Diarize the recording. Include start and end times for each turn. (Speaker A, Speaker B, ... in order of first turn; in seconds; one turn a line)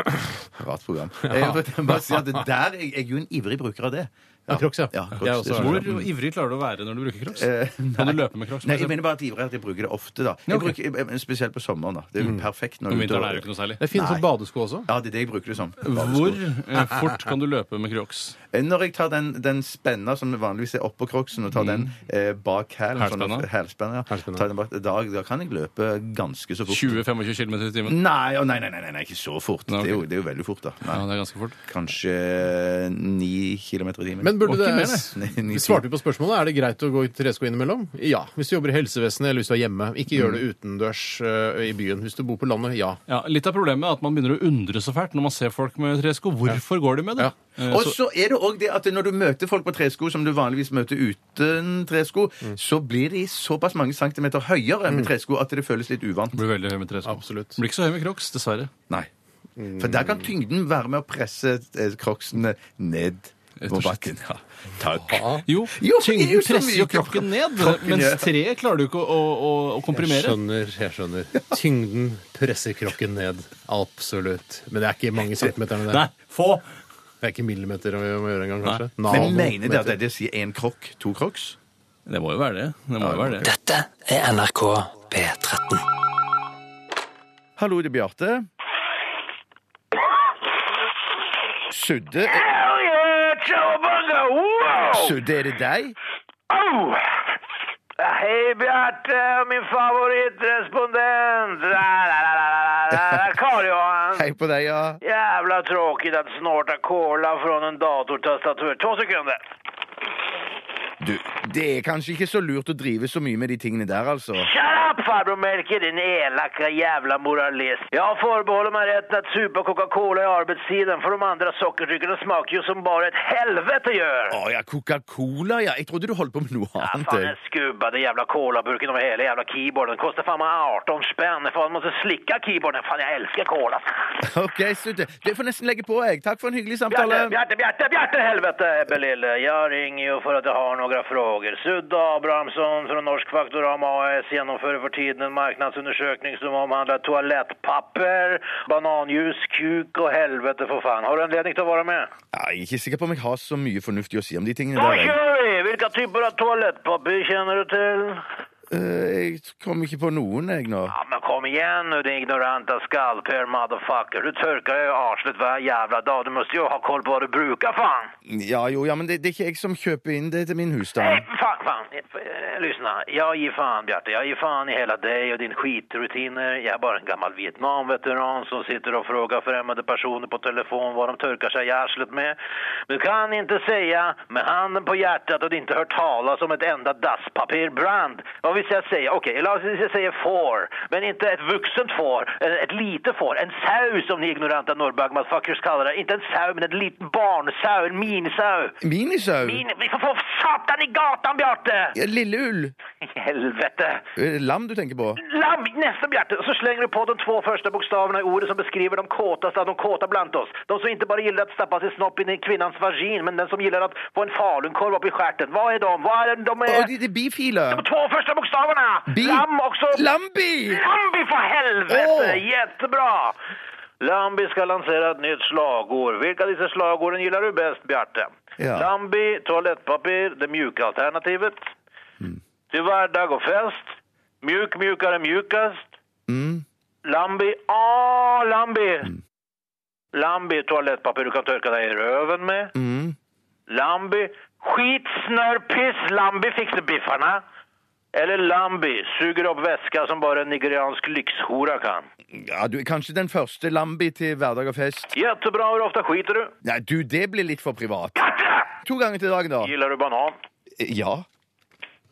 Speaker A: 0.6-6.0
Speaker B: 1.3-2.2
Speaker B: 4.5-5.9
Speaker C: 5.5-8.9
Speaker A: 7.3-14.2
Speaker C: 10.5-10.7
Speaker C: 12.9-13.8
Speaker B: 13.8-14.9
Speaker A: 14.9-16.4
Speaker C: 15.8-18.4
Speaker A: 18.5-27.0
Speaker C: 21.5-21.9
Speaker C: 23.0-23.4
Speaker B: 24.1-24.5
Speaker C: 26.7-28.0
Speaker A: 27.9-31.0
Speaker C: 29.7-30.0
Speaker C: 30.9-31.6
Speaker A: 31.6-34.4
Speaker B: 34.2-43.0
Speaker C: 34.4-35.1
Speaker A: 35.1-35.8
Speaker C: 43.1-47.9
Speaker A: 47.7-56.4
Speaker C: 56.3-58.7
Speaker B: 57.0-57.6
Speaker B: 59.6-60.3
Speaker A: 59.8-68.3
Speaker C: 63.6-64.1
Speaker B: 65.0-65.4
Speaker C: 65.5-70.4
Speaker B: 70.0-76.1
Speaker C: 75.9-76.7
Speaker B: 77.2-80.0
Speaker A: 79.1-81.6
Speaker C: 82.1-83.5
Speaker A: 83.0-83.4
Speaker D: 83.4-85.8
Speaker A: 87.6-88.5
Speaker A: 91.7-92.4
Speaker E: 92.2-95.2
Speaker A: 94.9-95.9
Speaker E: 96.5-97.2
Speaker E: 98.0-104.3
Speaker A: 102.9-103.2
Speaker A: 104.1-105.0
Speaker E: 105.0-109.4
Speaker A: 111.0-114.5
Speaker E: 114.4-124.4
Speaker A: 124.3-127.3
Speaker E: 126.8-134.0
Speaker A: 134.2-137.3
Speaker E: 136.9-152.1
Speaker A: 152.3-155.2
Speaker E: 154.7-158.3
Speaker A: 158.7-160.9
Speaker E: 160.9-168.1
Speaker A: 168.3-171.2
Speaker E: 171.0-182.3
Speaker E: 182.9-198.7
Speaker A: 198.8-199.6
Speaker E: 199.4-201.9
Speaker A: 201.9-202.7
Speaker E: 203.0-204.0
Speaker A: 204.2-205.2
Speaker E: 205.2-216.9
Speaker A: 216.7-217.8
Speaker E: 217.7-220.1
Speaker A: 219.1-220.8
Speaker E: 220.7-223.3
Speaker A: 221.9-222.4
Speaker E: 224.0-231.7
Speaker A: 228.6-228.9
Speaker E: 232.7-235.9
Speaker A: 236.3-236.6
Speaker E: 237.0-239.1
Speaker E: 240.1-242.7
Speaker A: 242.7-243.1
Speaker E: 243.7-247.4
Speaker E: 248.1-252.1
Speaker A: 252.3-255.1
Speaker E: 255.1-256.5
Speaker A: 256.6-258.3
Speaker E: 258.2-258.7
Speaker A: 258.8-259.7
Speaker E: 259.6-260.4
Speaker A: 260.8-261.2